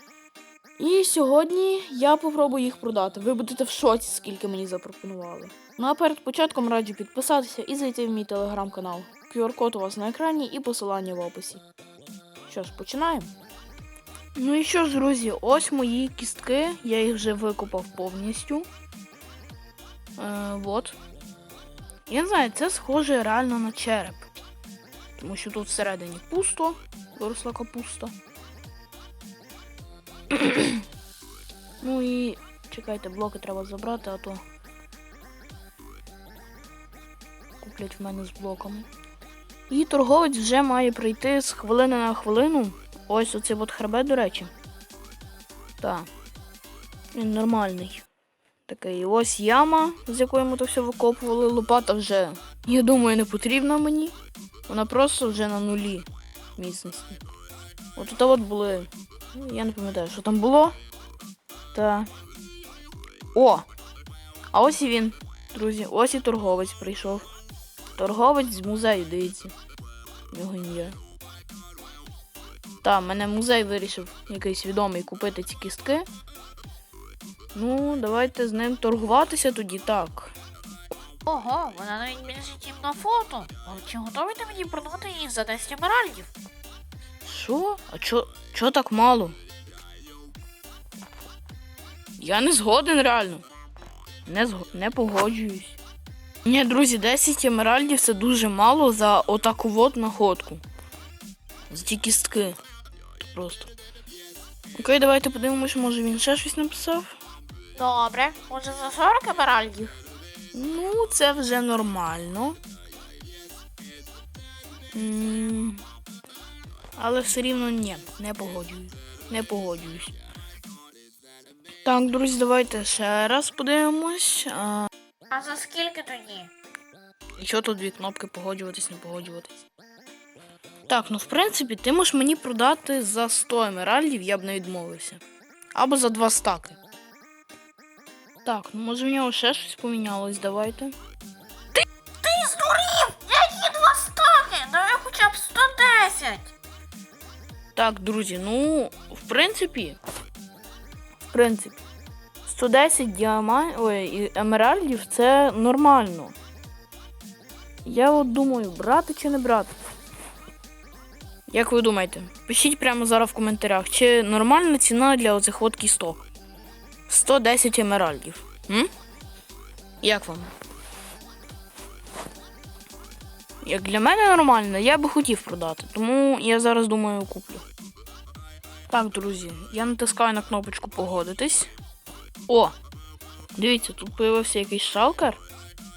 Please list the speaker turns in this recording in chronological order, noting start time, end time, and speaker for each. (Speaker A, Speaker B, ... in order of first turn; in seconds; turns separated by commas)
Speaker A: 0.8-11.6, Speaker A: 12.4-13.3, Speaker A: 14.3-18.7, Speaker A: 20.1-21.0, Speaker A: 22.1-24.2, Speaker A: 25.2-28.1, Speaker A: 30.3-30.8, Speaker A: 31.8-34.4, Speaker A: 37.6-38.9, Speaker A: 39.7-44.5, Speaker A: 45.8-46.1, Speaker A: 47.1-48.0, Speaker A: 48.6-54.1, Speaker A: 54.7-57.2, Speaker A: 58.0-60.7, Speaker A: 61.7-62.1, Speaker A: 63.3-63.7, Speaker A: 64.5-67.2, Speaker A: 68.0-69.5, Speaker A: 70.3-71.0, Speaker A: 72.8-76.1, Speaker A: 77.5-80.3, Speaker B: 81.3-86.3, Speaker A: 87.2-89.3, Speaker A: 92.2-93.4, Speaker A: 94.2-95.8, Speaker A: 96.4-100.6, Speaker A: 101.7-102.6, Speaker A: 103.2-103.7, Speaker A: 104.8-107.2, Speaker B: 107.8-109.9, Speaker A: 110.5-112.6, Speaker A: 114.9-115.8, Speaker A: 117.0-120.1, Speaker A: 121.8-124.9, Speaker B: 125.3-126.5, Speaker A: 127.4-129.6, Speaker A: 130.9-135.2, Speaker A: 135.7-136.8, Speaker A: 138.4-140.9, Speaker B: 142.2-146.5, Speaker A: 147.7-150.0, Speaker A: 151.2-151.8, Speaker A: 152.4-156.3, Speaker A: 157.8-159.7, Speaker A: 161.5-166.2, Speaker A: 167.1-168.9, Speaker A: 170.0-170.5, Speaker A: 173.6-177.6, Speaker A: 178.9-181.7, Speaker A: 182.5-182.7, Speaker A: 183.5-185.4